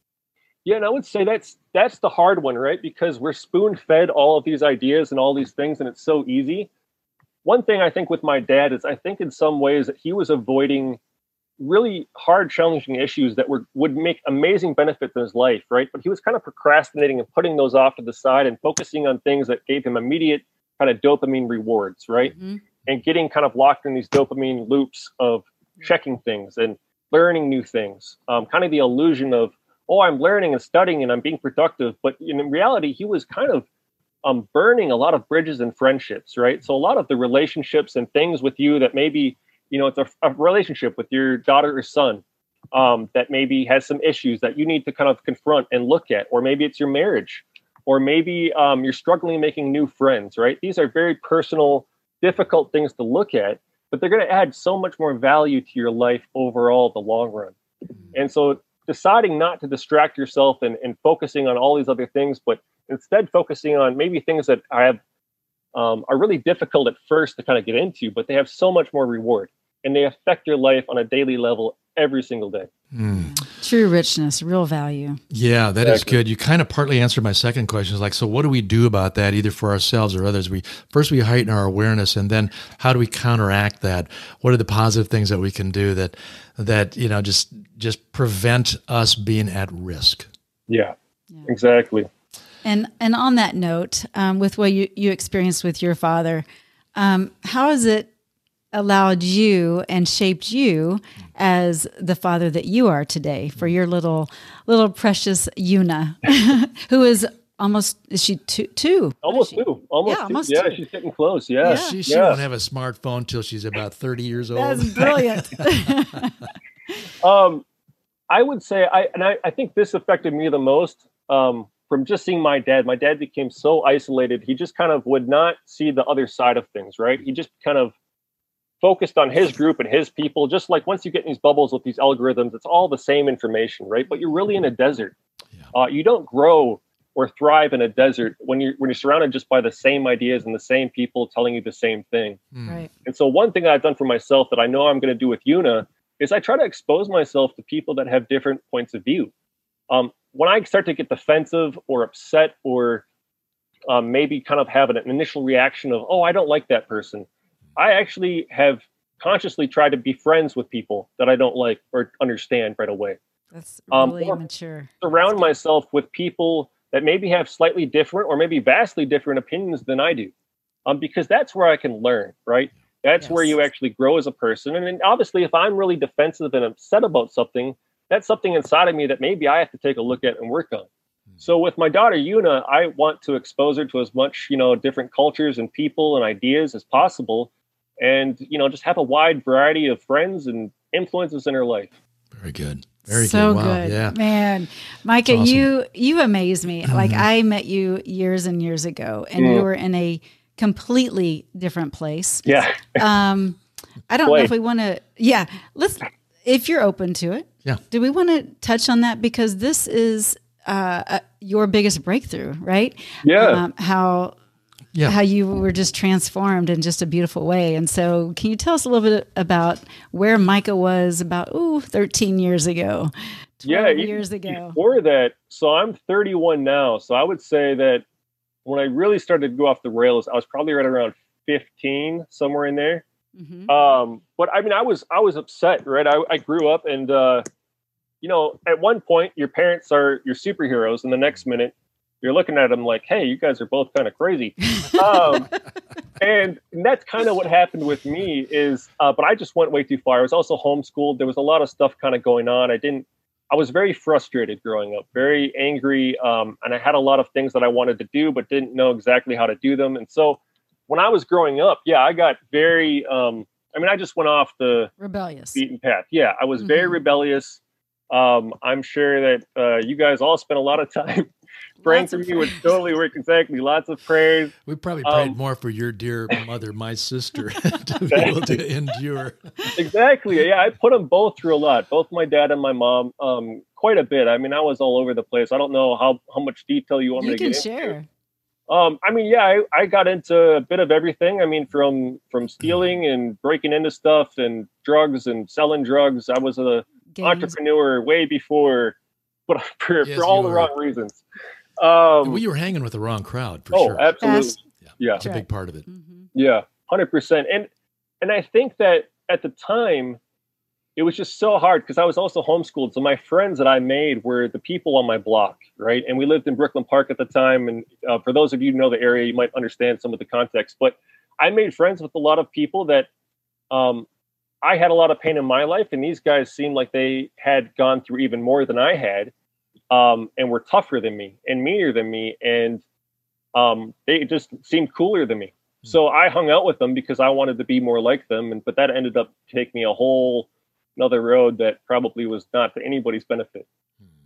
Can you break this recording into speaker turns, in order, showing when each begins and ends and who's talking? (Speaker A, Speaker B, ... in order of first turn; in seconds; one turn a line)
Speaker A: 0.7-6.7
Speaker A: 7.4-11.0
Speaker A: 11.6-22.3
Speaker A: 22.9-33.6
Speaker A: 34.2-42.2
Speaker A: 42.7-57.5
Speaker A: 58.1-65.0
Speaker A: 65.7-72.7
Speaker B: 72.9-73.3
Speaker C: 73.1-75.2
Speaker B: 75.3-90.3
Speaker A: 75.8-76.1
Speaker A: 90.7-90.9
Speaker A: 91.5-92.1
Speaker C: 92.6-98.1
Speaker C: 98.7-110.8
Speaker A: 109.2-112.4
Speaker C: 111.6-112.0
Speaker B: 111.6-115.9
Speaker C: 114.5-116.4
Speaker A: 117.2-117.6
Speaker A: 118.3-127.9
Speaker A: 128.8-135.1
Speaker A: 135.7-142.4
Speaker B: 142.5-142.8
Speaker A: 143.0-149.3
Speaker A: 149.9-153.0
Speaker A: 153.9-163.2
Speaker C: 163.5-164.9
Speaker A: 163.9-164.4
Speaker A: 165.0-170.3
Speaker A: 170.8-180.9
Speaker C: 173.2-173.5
Speaker A: 181.4-191.9
Speaker B: 192.4-194.2
Speaker C: 193.1-214.3
Speaker B: 195.3-195.7
Speaker B: 196.8-197.2
Speaker A: 199.4-199.7
Speaker A: 202.4-203.0
Speaker A: 204.2-204.5
Speaker A: 213.2-213.6
Speaker C: 215.0-224.8
Speaker A: 223.7-228.0
Speaker A: 228.6-233.0
Speaker C: 233.3-233.7
Speaker A: 233.7-237.4
Speaker A: 238.2-245.5
Speaker A: 246.2-264.9
Speaker C: 265.0-265.6
Speaker A: 265.5-267.6
Speaker C: 266.6-267.0
Speaker A: 268.1-271.3
Speaker C: 271.8-272.8
Speaker A: 271.8-275.4
Speaker B: 274.7-279.7
Speaker A: 278.1-278.6
Speaker A: 279.8-287.9
Speaker C: 287.2-288.1
Speaker A: 288.7-298.9
Speaker C: 297.1-297.5
Speaker A: 299.5-301.2
Speaker B: 300.0-300.7
Speaker A: 301.8-302.4
Speaker B: 302.2-304.1
Speaker A: 303.7-305.2
Speaker C: 304.2-304.5
Speaker B: 304.8-305.9
Speaker C: 305.2-306.2
Speaker A: 306.3-307.7
Speaker A: 308.2-310.2
Speaker A: 310.9-323.1
Speaker A: 323.7-324.1
Speaker A: 324.6-329.3
Speaker A: 329.9-332.8
Speaker A: 333.5-343.6